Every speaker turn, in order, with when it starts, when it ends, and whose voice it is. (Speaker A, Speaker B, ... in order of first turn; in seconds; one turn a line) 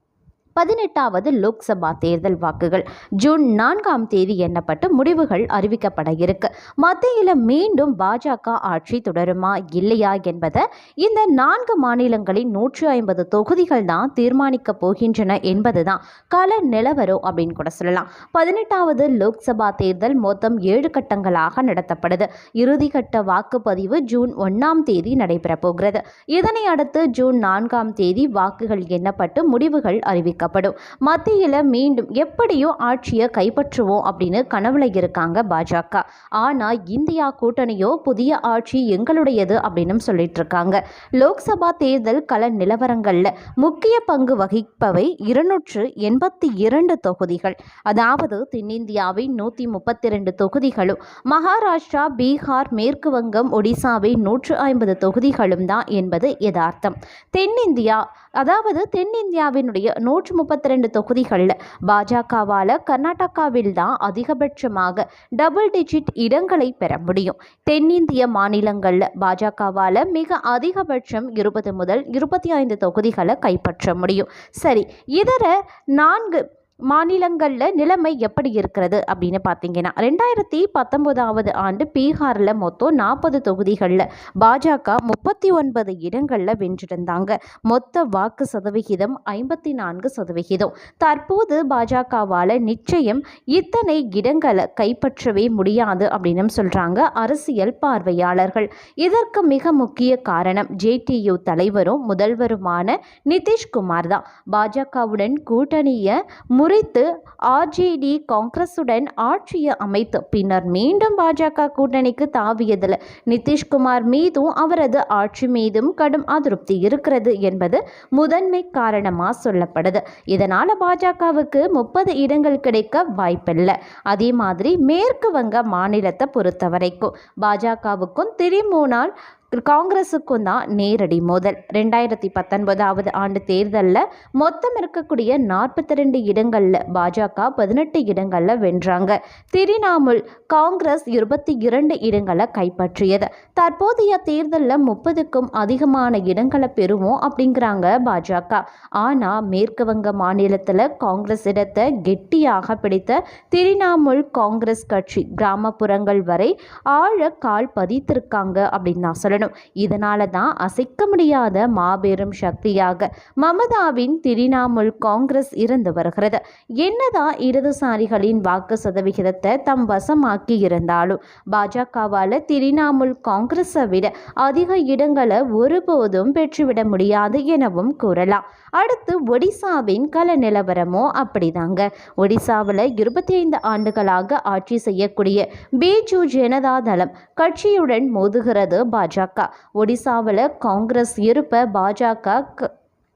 Speaker A: 0.6-192.7